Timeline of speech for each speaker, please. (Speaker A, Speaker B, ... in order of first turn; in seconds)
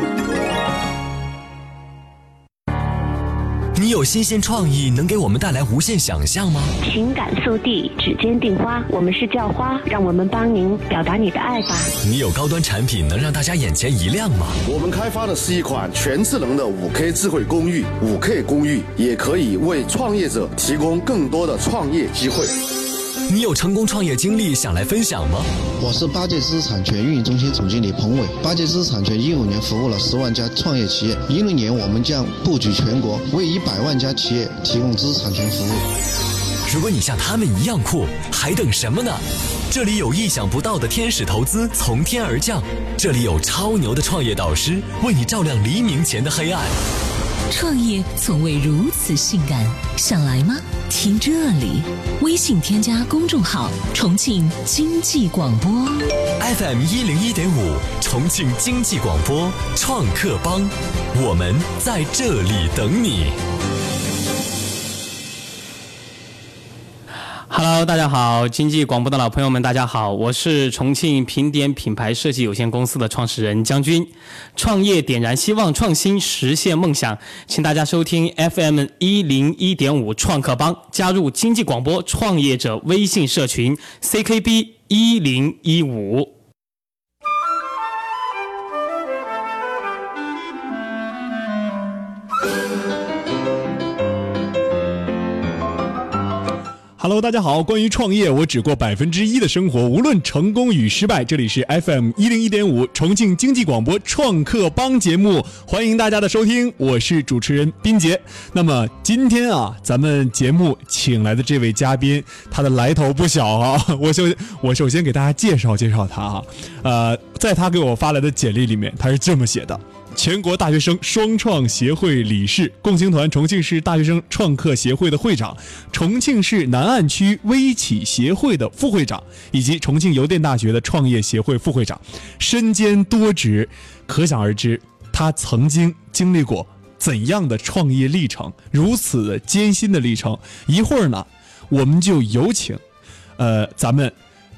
Speaker A: 3.8-6.7, 12.0-14.6, 23.3-25.5, 36.7-46.8, 56.4-63.4
Speaker B: 6.8-11.9
Speaker C: 14.7-22.5
Speaker D: 25.8-35.8
Speaker E: 47.5-56.1
Speaker F: 67.5-86.3
Speaker G: 97.0-142.8, 143.4-144.2